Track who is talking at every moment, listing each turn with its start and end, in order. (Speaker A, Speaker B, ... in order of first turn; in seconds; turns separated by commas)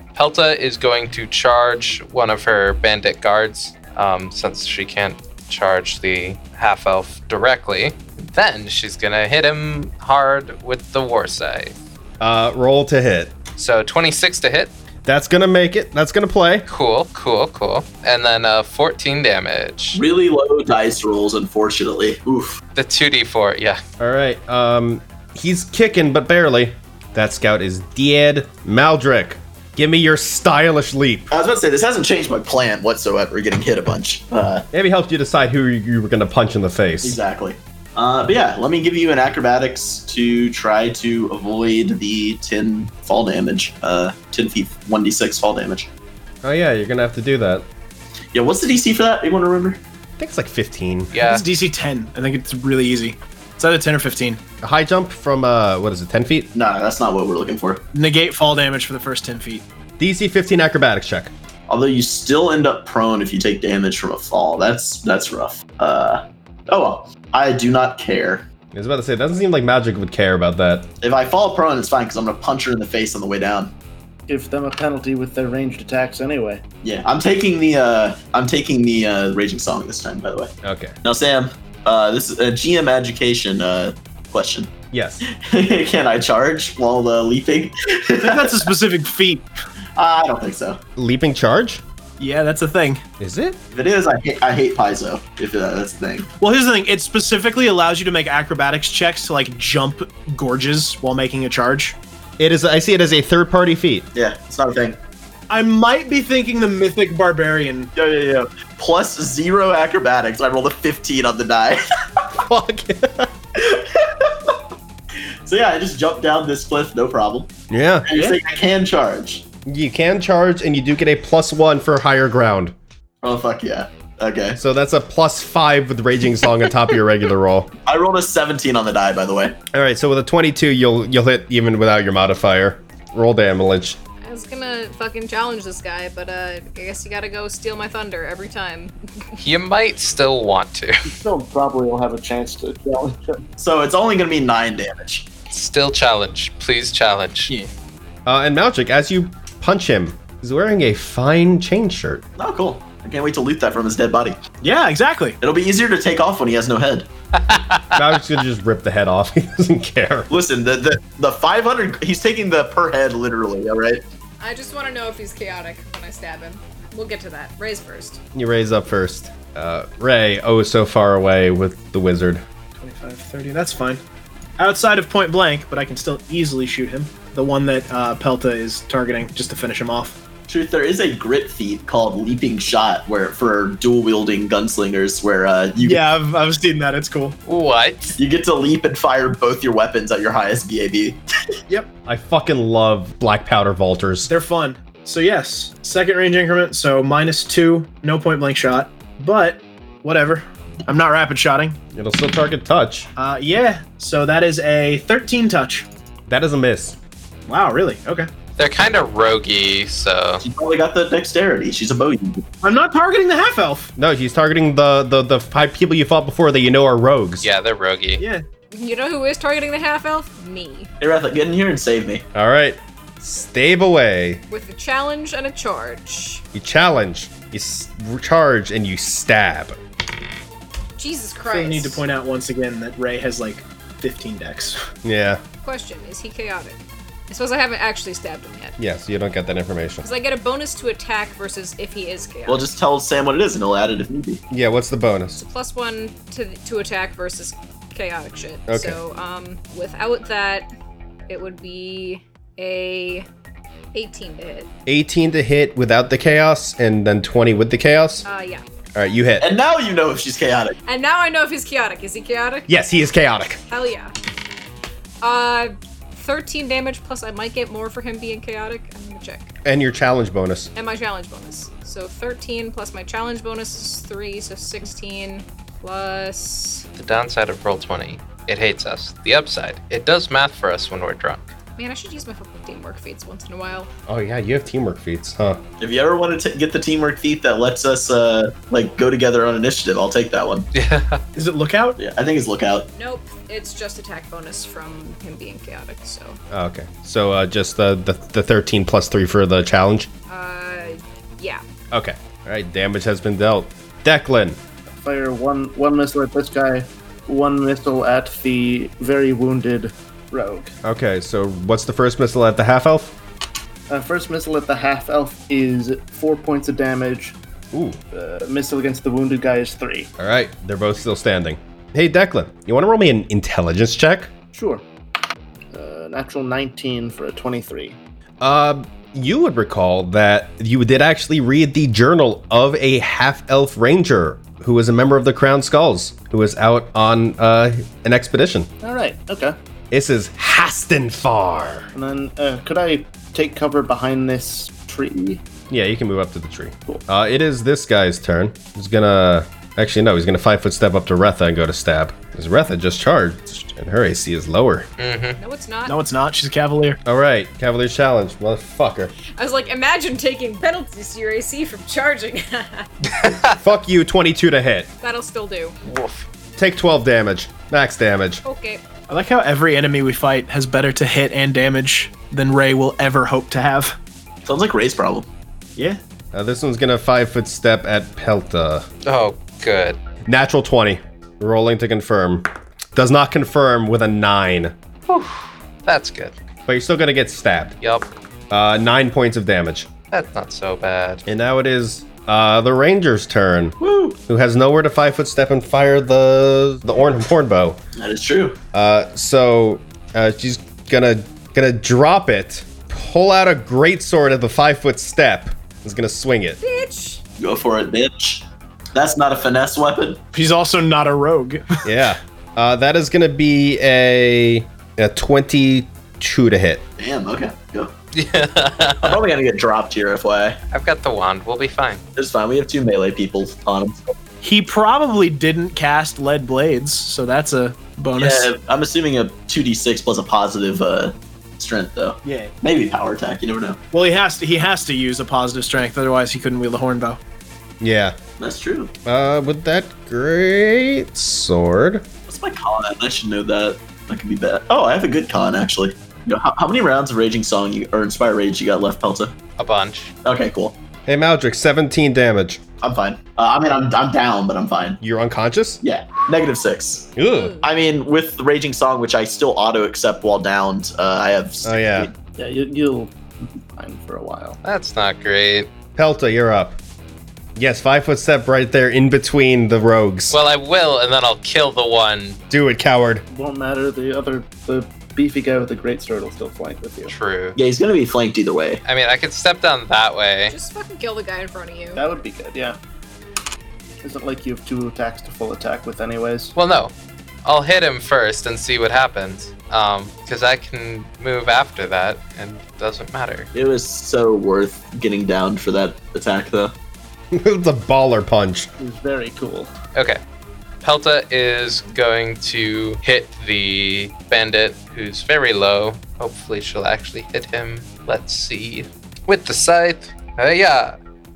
Speaker A: 0.1-11.7, Speaker B: 12.2-13.3, Speaker A: 13.6-14.7, Speaker B: 15.1-16.6, Speaker A: 16.7-20.0, Speaker C: 19.9-22.6, Speaker A: 22.7-23.8, Speaker B: 24.0-31.3, Speaker C: 31.3-34.6, Speaker B: 34.7-37.2, Speaker C: 37.0-45.9, Speaker B: 46.4-47.6, Speaker C: 48.3-49.8, Speaker B: 50.2-51.1, Speaker A: 51.1-51.4, Speaker D: 51.2-54.4, Speaker B: 54.6-56.5, Speaker C: 56.5-57.8, Speaker D: 57.9-59.6, Speaker B: 60.0-61.3, Speaker C: 61.7-68.5, Speaker B: 68.7-70.9, Speaker C: 71.0-73.7, Speaker E: 74.3-76.6, Speaker C: 76.8-80.5, Speaker B: 80.6-81.0, Speaker C: 81.0-84.7, Speaker B: 84.9-85.2, Speaker C: 85.3-88.7, Speaker D: 88.2-89.5, Speaker C: 90.0-90.8, Speaker B: 91.0-91.8, Speaker D: 92.2-93.0, Speaker B: 93.2-93.6, Speaker C: 93.7-96.3, Speaker D: 96.4-102.0, Speaker B: 102.4-104.1, Speaker C: 104.1-105.0, Speaker D: 105.5-107.9, Speaker C: 107.9-112.2, Speaker B: 112.5-113.3, Speaker C: 113.5-114.6, Speaker C: 115.5-117.5, Speaker B: 117.7-118.3, Speaker C: 118.0-119.4, Speaker B: 119.7-122.8, Speaker C: 123.2-124.6, Speaker B: 124.6-127.7, Speaker C: 127.8-129.6, Speaker B: 129.7-134.0, Speaker F: 134.2-139.4, Speaker A: 139.4-141.2, Speaker E: 141.0-143.4, Speaker C: 143.6-145.3, Speaker A: 145.5-147.5, Speaker B: 148.2-152.2, Speaker C: 152.4-154.4, Speaker D: 154.6-155.4, Speaker C: 155.4-157.1, Speaker A: 157.3-158.0, Speaker B: 157.9-160.3, Speaker C: 160.3-164.0, Speaker F: 164.4-168.2, Speaker B: 168.3-172.4, Speaker D: 172.8-174.0, Speaker D: 174.6-180.2, Speaker C: 180.5-186.0, Speaker D: 185.8-187.4, Speaker A: 187.4-188.2, Speaker C: 188.2-191.2, Speaker B: 192.1-194.3, Speaker D: 194.2-201.8, Speaker B: 201.9-203.1, Speaker D: 203.2-205.9, Speaker B: 206.3-207.0, Speaker D: 207.5-208.3, Speaker A: 208.6-210.4, Speaker C: 210.4-212.4, Speaker D: 212.6-213.9, Speaker B: 214.0-217.5, Speaker A: 217.4-218.2, Speaker D: 218.2-218.4, Speaker F: 218.7-220.9, Speaker C: 221.0-222.2, Speaker B: 222.3-224.4, Speaker F: 224.5-226.4, Speaker B: 226.5-229.8, Speaker F: 231.0-232.0, Speaker D: 231.4-234.8, Speaker B: 235.0-235.4, Speaker F: 235.6-238.8, Speaker B: 238.8-240.1, Speaker F: 240.0-242.7, Speaker C: 242.5-244.4, Speaker B: 244.5-245.4, Speaker F: 245.3-250.7, Speaker B: 248.7-249.0, Speaker F: 251.3-253.2, Speaker F: 253.9-254.7, Speaker B: 254.8-258.2, Speaker F: 258.2-258.6, Speaker B: 258.9-259.5, Speaker C: 259.4-260.8, Speaker F: 260.9-262.7, Speaker B: 262.7-263.6, Speaker F: 263.7-264.1, Speaker F: 265.2-269.5, Speaker B: 269.6-270.7, Speaker F: 270.7-276.9, Speaker A: 277.0-281.5, Speaker F: 281.8-283.9, Speaker B: 284.1-285.6, Speaker C: 285.8-290.7, Speaker A: 290.7-291.2, Speaker D: 291.4-292.0, Speaker C: 292.0-292.9, Speaker F: 292.9-296.4, Speaker B: 296.5-300.1, Speaker F: 300.3-301.6, Speaker B: 301.9-304.6, Speaker E: 305.0-310.7, Speaker B: 310.8-313.1, Speaker E: 313.9-317.4, Speaker B: 317.7-318.0, Speaker E: 318.1-320.1, Speaker B: 320.2-324.3, Speaker E: 324.5-324.8, Speaker E: 325.7-328.0, Speaker B: 328.4-338.7, Speaker E: 338.8-339.6, Speaker B: 339.9-341.9, Speaker E: 341.9-345.4, Speaker B: 345.7-354.9, Speaker A: 355.0-355.4, Speaker F: 355.4-356.0, Speaker D: 355.9-357.0, Speaker B: 357.1-359.1, Speaker F: 359.4-362.9, Speaker B: 363.4-364.9, Speaker F: 365.0-365.8, Speaker A: 365.8-366.2, Speaker B: 366.6-368.4, Speaker F: 368.4-368.8, Speaker D: 369.1-373.9, Speaker C: 374.4-375.2, Speaker B: 376.3-378.9, Speaker A: 379.0-380.0, Speaker B: 380.3-384.7, Speaker A: 385.1-386.3, Speaker B: 386.7-387.8, Speaker A: 387.8-388.1, Speaker B: 388.5-389.9, Speaker A: 390.1-391.2, Speaker B: 391.2-393.8, Speaker C: 393.8-394.2, Speaker B: 394.3-397.8, Speaker C: 397.9-398.6, Speaker B: 398.7-406.6, Speaker F: 406.6-407.2, Speaker C: 407.4-410.2, Speaker D: 410.3-411.8, Speaker B: 411.8-416.8, Speaker C: 417.0-417.9, Speaker A: 418.1-419.2, Speaker C: 419.0-420.6, Speaker A: 420.7-422.0, Speaker C: 422.1-424.1, Speaker D: 424.4-428.5, Speaker C: 428.2-433.8, Speaker D: 432.2-432.5, Speaker D: 433.9-437.2, Speaker B: 437.8-438.2, Speaker C: 438.4-438.9, Speaker B: 439.1-442.0, Speaker C: 442.3-449.3, Speaker A: 449.6-450.1, Speaker C: 450.2-450.7, Speaker B: 451.1-452.6, Speaker C: 452.8-455.0, Speaker B: 455.0-455.8, Speaker C: 455.8-457.1, Speaker B: 457.1-457.6, Speaker F: 457.3-457.6, Speaker C: 457.6-462.1, Speaker B: 461.6-462.1, Speaker E: 462.4-464.6, Speaker A: 464.6-465.7, Speaker B: 465.9-466.8, Speaker B: 467.6-470.4, Speaker A: 470.3-472.4, Speaker B: 472.5-473.2, Speaker E: 473.3-477.1, Speaker A: 477.1-477.6, Speaker C: 477.6-478.8, Speaker A: 478.8-480.5, Speaker F: 480.5-482.0, Speaker E: 481.9-482.8, Speaker E: 484.0-486.5, Speaker A: 486.6-486.9, Speaker A: 487.4-493.5, Speaker C: 493.5-496.7, Speaker B: 497.3-498.7, Speaker E: 498.8-499.7, Speaker A: 500.8-511.0